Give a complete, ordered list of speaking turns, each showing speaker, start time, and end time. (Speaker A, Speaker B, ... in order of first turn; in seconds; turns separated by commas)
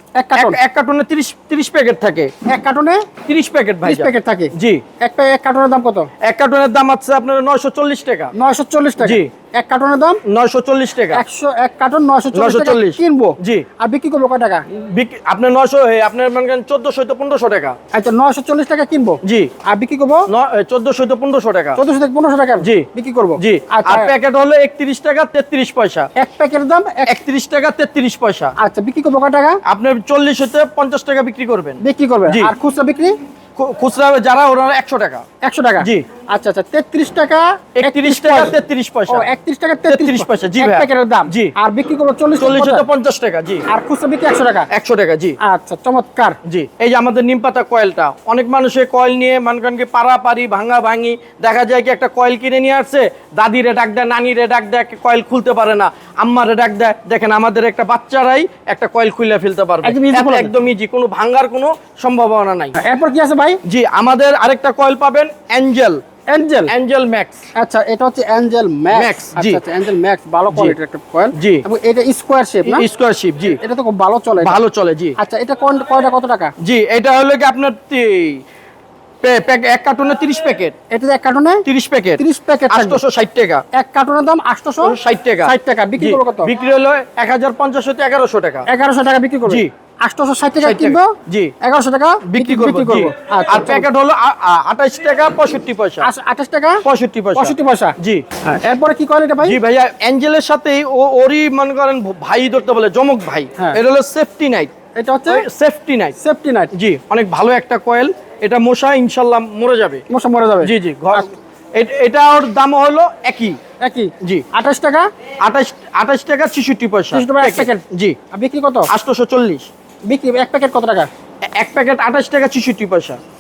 Speaker A: 0.2-0.6, Speaker B: 0.3-2.3, Speaker A: 2.5-3.0, Speaker B: 3.3-4.8, Speaker A: 3.9-6.1, Speaker B: 6.2-8.3, Speaker A: 8.4-10.2, Speaker B: 9.0-9.3, Speaker B: 10.2-11.2, Speaker A: 11.1-14.6, Speaker B: 12.3-13.7, Speaker B: 14.7-17.8, Speaker A: 17.9-20.2, Speaker B: 19.2-19.5, Speaker B: 20.3-21.8, Speaker A: 21.8-24.1, Speaker B: 22.6-22.9, Speaker B: 23.4-26.1, Speaker A: 26.2-27.1, Speaker B: 27.1-28.5, Speaker A: 28.6-29.6, Speaker B: 29.7-32.5, Speaker A: 31.8-33.1, Speaker B: 33.6-35.2, Speaker A: 35.4-38.6, Speaker B: 35.8-36.1, Speaker B: 37.8-39.3, Speaker A: 39.1-42.9, Speaker B: 39.9-41.5, Speaker B: 42.4-43.6, Speaker A: 43.7-44.7, Speaker B: 44.7-45.4, Speaker A: 45.4-46.4, Speaker B: 46.5-62.8, Speaker A: 59.8-60.6, Speaker A: 62.8-63.6, Speaker B: 63.6-66.0, Speaker A: 66.3-66.7, Speaker B: 66.7-67.4, Speaker A: 67.6-72.9, Speaker B: 68.9-69.6, Speaker B: 71.3-71.6, Speaker B: 72.7-73.6, Speaker A: 73.6-74.6, Speaker B: 74.4-75.2, Speaker A: 75.2-76.5, Speaker B: 76.6-78.4, Speaker B: 79.2-80.8, Speaker A: 80.9-81.6, Speaker B: 81.7-83.6, Speaker A: 82.2-83.0, Speaker A: 83.7-85.0, Speaker B: 84.8-88.7, Speaker A: 85.5-86.5, Speaker A: 88.7-91.1, Speaker B: 90.6-91.5, Speaker A: 91.6-93.9, Speaker B: 92.2-96.1, Speaker A: 96.0-96.8, Speaker B: 96.8-98.2, Speaker A: 97.3-97.9, Speaker A: 98.5-99.6, Speaker B: 99.4-104.7, Speaker A: 105.0-105.5, Speaker B: 105.3-106.2, Speaker A: 106.2-106.7, Speaker B: 106.7-110.0, Speaker A: 110.1-111.2, Speaker B: 110.6-113.6, Speaker A: 113.8-115.1, Speaker B: 115.4-118.2, Speaker A: 117.1-118.9, Speaker B: 118.9-119.7, Speaker A: 120.1-121.1, Speaker B: 121.6-123.2